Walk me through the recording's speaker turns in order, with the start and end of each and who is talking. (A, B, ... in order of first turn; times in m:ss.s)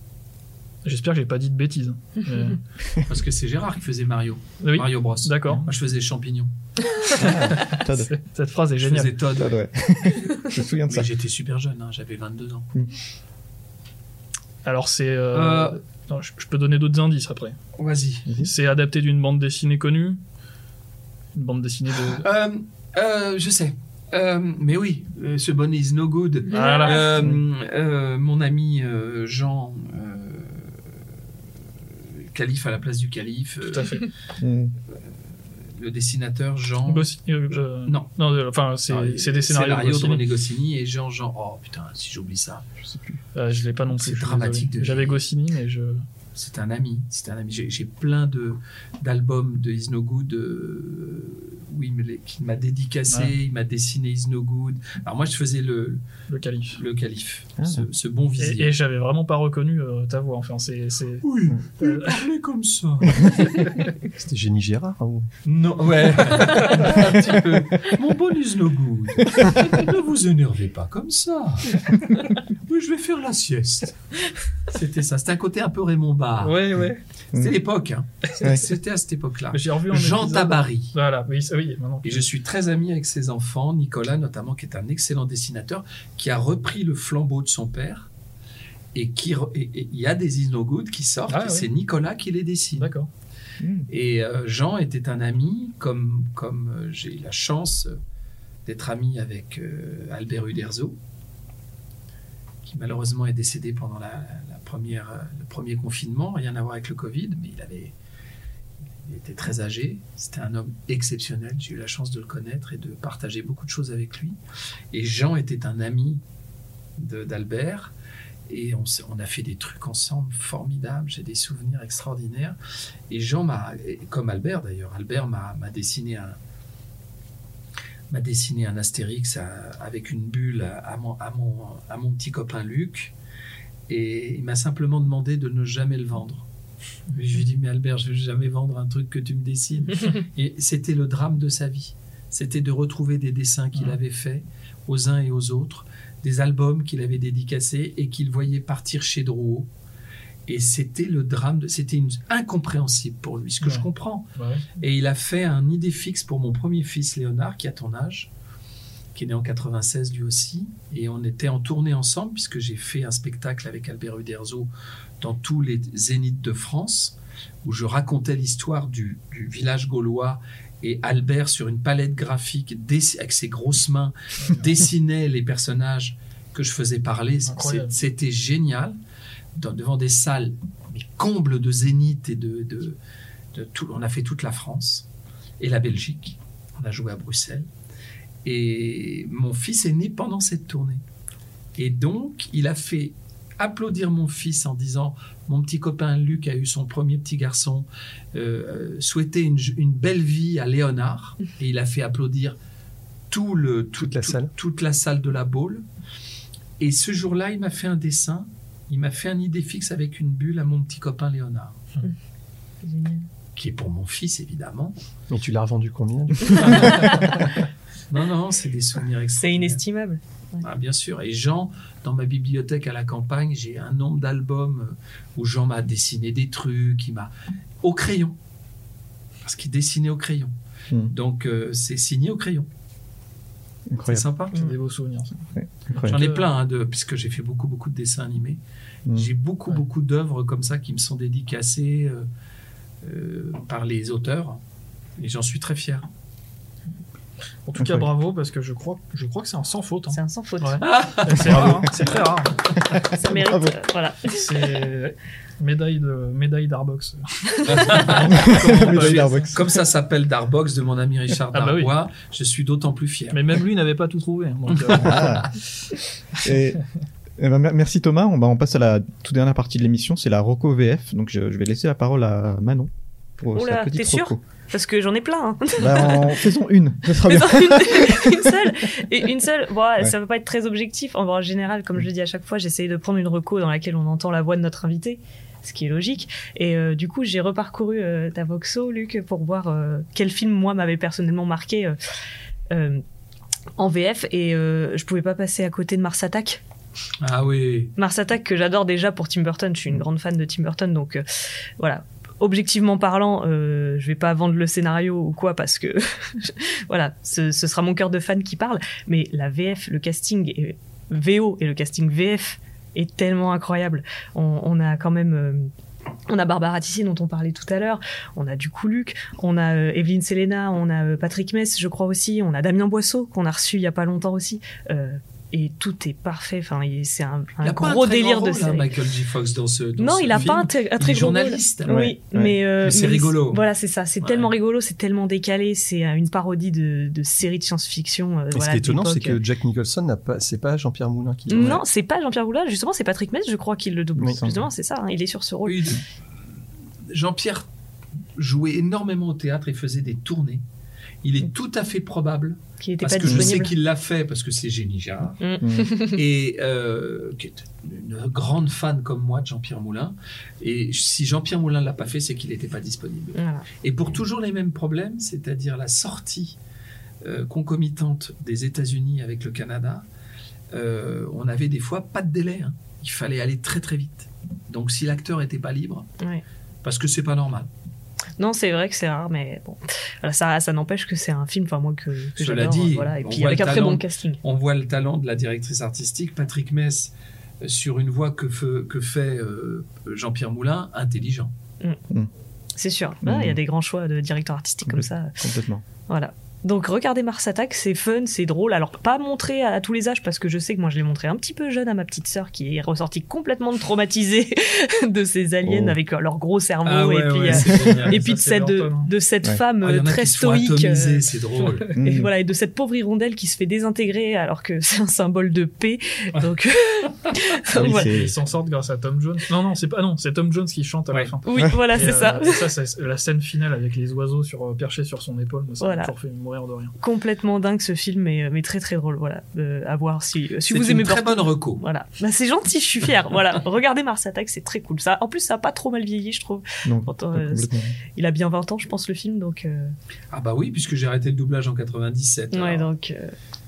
0:00.8-0:02.6 A
0:03.0-0:06.5 B
0:04.6-0:05.6 A
0:07.2-0:08.1 C
0:07.2-0:09.2 A
0:08.8-0:09.6 B
0:09.4-0:11.1 C
0:10.8-0:12.7 B
0:14.6-0:17.6 A
0:15.3-0:15.8 B
0:17.8-0:18.3 B
0:18.3-0:18.5 C
0:18.4-0:20.2 A
0:21.3-0:22.2 A
0:22.0-0:30.8 B
0:26.5-0:27.0 D
0:26.5-0:27.2 A
0:32.0-0:34.1 B
0:33.6-0:34.1 A
0:34.4-0:34.7 C
0:35.6-0:37.1 B
0:36.8-0:40.2 A
0:38.9-0:42.7 B
0:42.8-0:43.2 C
0:43.3-0:46.0 A
0:43.9-0:45.2 B
0:46.3-0:56.0 B
0:53.1-0:53.4 A
0:56.3-0:56.8 A
0:56.7-0:58.7 B
0:58.4-1:01.3 A
1:01.2-1:03.7 B
1:01.8-1:02.2 A
1:04.1-1:05.2 E
1:05.4-1:16.8 B
1:16.4-1:17.0 A
1:17.3-1:20.9 B
1:19.5-1:22.3 A
1:22.0-1:28.1 B
1:28.9-1:32.9 B
1:31.3-1:31.7 A
1:32.8-1:33.1 A
1:33.6-1:33.9 C
1:33.9-1:38.0 B
1:38.6-1:41.0 B
1:42.6-1:47.9 B
1:49.0-1:54.4 B
1:54.9-1:56.2 B
1:57.0-1:57.9 B
1:58.5-2:02.6 B
2:03.1-2:06.4 B
2:08.1-2:13.1 B
2:13.9-2:16.4 B
2:17.1-2:29.7 B
2:30.5-2:38.3 B
2:33.6-2:34.7 A
2:39.1-2:59.0 B
2:57.4-2:58.0 A
2:59.5-3:03.0 B
3:03.5-3:05.1 B
3:05.6-3:07.7 B
3:08.4-3:11.0 B
3:11.8-3:22.6 B
3:23.3-3:25.8 B
3:24.0-3:24.5 E
3:26.8-3:31.8 B
3:32.8-3:33.2 D
3:33.5-3:35.0 B
3:35.3-3:37.2 E
3:36.5-3:37.5 B
3:38.1-3:39.8 B
3:39.4-3:40.6 D
3:40.6-3:47.3 B
3:47.8-3:48.4 B
3:49.4-3:50.5 B
3:51.1-3:52.7 B
3:53.9-3:54.2 C
3:54.1-3:54.6 B
3:54.5-3:56.5 A
3:55.5-3:56.2 C
3:56.0-3:58.6 B
3:59.1-4:02.3 B
4:03.0-4:04.6 B
4:05.2-4:06.0 B
4:07.6-4:12.8 A
4:07.8-4:08.1 C
4:10.1-4:10.8 D
4:10.8-4:12.1 B
4:11.4-4:11.9 C
4:12.9-4:13.8 C
4:13.0-4:14.7 D
4:14.3-4:19.5 A
4:17.5-4:18.0 D
4:17.6-4:23.4 B
4:18.2-4:19.6 C
4:21.5-4:21.9 A
4:23.3-4:25.5 A
4:24.9-4:25.3 B
4:24.9-4:25.5 C
4:26.4-4:26.8 C
4:27.4-4:34.4 C
4:33.5-4:36.5 D
4:35.8-4:38.7 C
4:37.1-4:52.0 D
4:52.7-4:53.0 D
4:53.8-4:56.6 D
4:57.2-4:57.9 B
4:58.0-5:01.2 D
5:01.8-5:15.7 D
5:16.3-5:28.9 D
5:27.6-5:32.0 B
5:30.0-5:39.4 D
5:31.9-5:32.6 C
5:32.8-5:33.6 B
5:34.2-5:34.5 B
5:38.5-5:41.8 E
5:41.5-5:46.0 D
5:44.2-5:44.6 C
5:45.6-5:46.0 B
5:47.1-5:47.7 B
5:48.4-5:50.6 B
5:51.2-6:06.6 B
5:52.8-5:53.7 D
5:53.2-5:53.5 C
5:55.4-5:56.2 D
5:55.6-5:55.9 C
6:03.3-6:03.7 D
6:07.2-6:10.0 B
6:10.7-6:16.1 B
6:16.8-6:17.7 B
6:18.4-6:24.4 D
6:22.4-6:31.5 B
6:32.8-6:35.4 D
6:33.2-6:33.6 C
6:34.9-6:35.8 C
6:36.1-6:51.3 D
6:45.6-6:46.0 C
6:46.8-6:48.2 B
6:47.5-6:49.1 A
6:49.8-6:52.0 B
6:51.9-6:52.3 C
6:51.9-6:58.1 D
6:57.7-6:58.4 C
6:57.7-7:06.9 A
7:01.4-7:02.7 D
7:05.8-7:06.1 D
7:07.0-7:20.0 D
7:10.7-7:11.8 B
7:16.8-7:18.0 C
7:20.3-7:22.9 B
7:22.5-7:23.3 D